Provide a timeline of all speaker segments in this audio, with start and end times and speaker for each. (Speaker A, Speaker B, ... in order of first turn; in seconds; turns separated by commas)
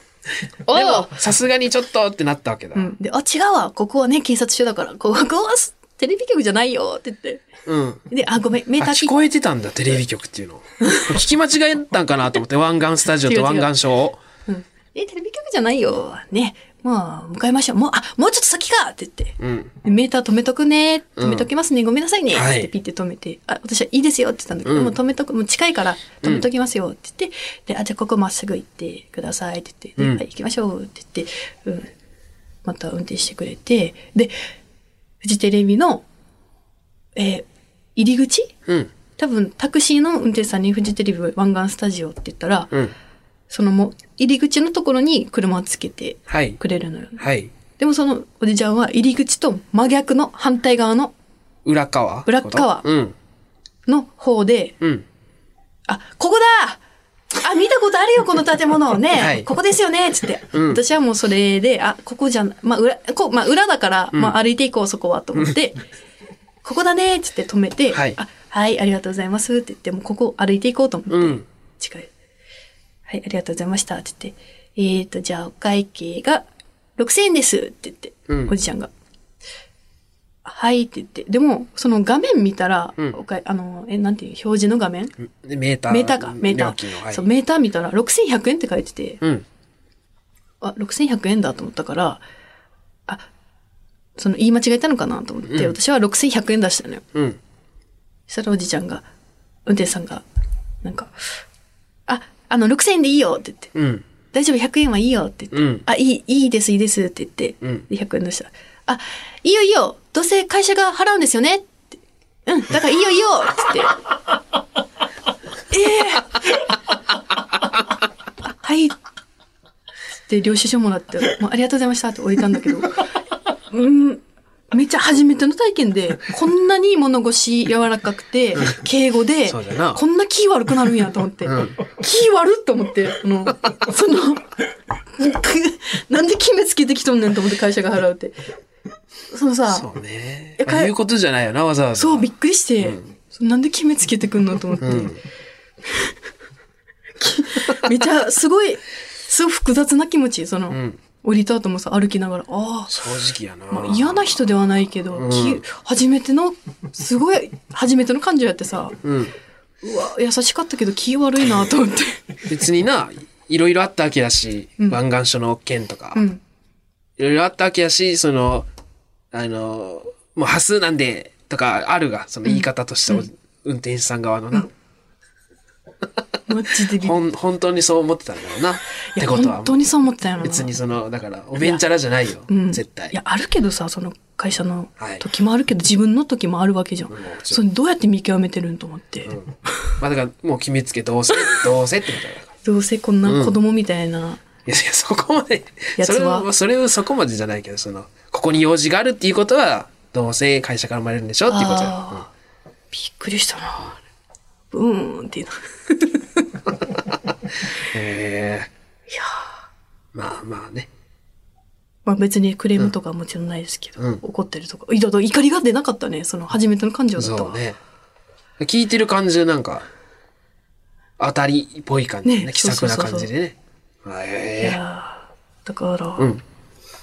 Speaker A: 0.7-1.2, Speaker B: 0.7-2.9, Speaker A: 2.7-7.5, Speaker B: 7.7-8.0, Speaker A: 8.1-9.1, Speaker B: 8.8-14.2, Speaker A: 13.2-13.7, Speaker A: 14.4-31.9, Speaker B: 19.4-19.7, Speaker B: 21.2-21.5, Speaker B: 22.3-22.7, Speaker B: 24.6-24.9, Speaker B: 26.2-26.5, Speaker A: 32.6-34.3, Speaker A: 35.2-36.0, Speaker A: 37.1-38.5, Speaker A: 39.2-42.7, Speaker A: 43.5-47.2, Speaker B: 46.3-46.6, Speaker B: 47.2-47.5, Speaker A: 47.8-51.1, Speaker B: 51.6-53.1, Speaker A: 52.2-52.9, Speaker A: 53.9-54.8, Speaker A: 55.9-56.8, Speaker A: 57.3-65.8, Speaker B: 59.1-59.5, Speaker B: 60.5-60.8, Speaker A: 66.6-72.1, Speaker B: 67.9-68.2, Speaker B: 71.1-71.4, Speaker A: 73.1-76.5, Speaker A: 77.0-78.9, Speaker B: 78.3-78.5, Speaker A: 80.4-85.1, Speaker B: 85.2-87.2, Speaker A: 85.9-89.2, Speaker A: 90.6-92.2, Speaker A: 94.2-97.0, Speaker B: 95.4-95.7, Speaker B: 97.1-97.4, Speaker A: 98.3-99.0, Speaker A: 99.7-100.2, Speaker A: 100.8-101.1, Speaker A: 102.1-103.7, Speaker B: 103.7-104.0, Speaker A: 104.3-111.9, Speaker B: 105.5-105.8, Speaker A: 112.5-114.0, Speaker A: 115.7-116.6, Speaker A: 118.4-119.0, Speaker A: 120.3-123.1, Speaker A: 123.7-134.6, Speaker B: 129.5-130.0, Speaker B: 131.4-131.8, Speaker A: 135.1-138.3, Speaker A: 139.3-139.9, Speaker B: 139.7-142.3, Speaker A: 140.6-140.9, Speaker A: 141.9-145.1, Speaker B: 142.8-143.1, Speaker B: 144.8-145.2, Speaker A: 145.8-146.2, Speaker A: 147.2-153.1, Speaker B: 150.7-151.0, Speaker B: 152.9-154.5, Speaker A: 153.7-159.0, Speaker B: 155.1-155.6, Speaker B: 159.0-159.3, Speaker A: 159.8-162.3, Speaker B: 162.5-166.2, Speaker A: 166.1-166.4, Speaker B: 167.2-168.7, Speaker B: 169.3-174.7, Speaker A: 172.4-173.2, Speaker A: 176.5-177.2, Speaker B: 176.9-179.8, Speaker A: 179.2-180.7, Speaker B: 180.4-183.1, Speaker A: 182.5-189.3, Speaker B: 185.0-185.2, Speaker B: 187.1-187.6, Speaker B: 189.2-192.5, Speaker A: 192.6-194.4, Speaker B: 193.2-193.5, Speaker B: 194.7-202.2, Speaker A: 196.0-196.5, Speaker A: 201.5-202.3, Speaker A: 202.9-204.0, Speaker A: 204.7-206.5, Speaker B: 207.8-208.7, Speaker A: 209.1-209.4, Speaker B: 210.1-210.9, Speaker A: 212.0-217.6, Speaker B: 217.2-217.8, Speaker B: 218.6-219.8, Speaker B: 221.2-224.8, Speaker A: 222.2-223.3, Speaker A: 224.6-226.3, Speaker B: 226.2-226.4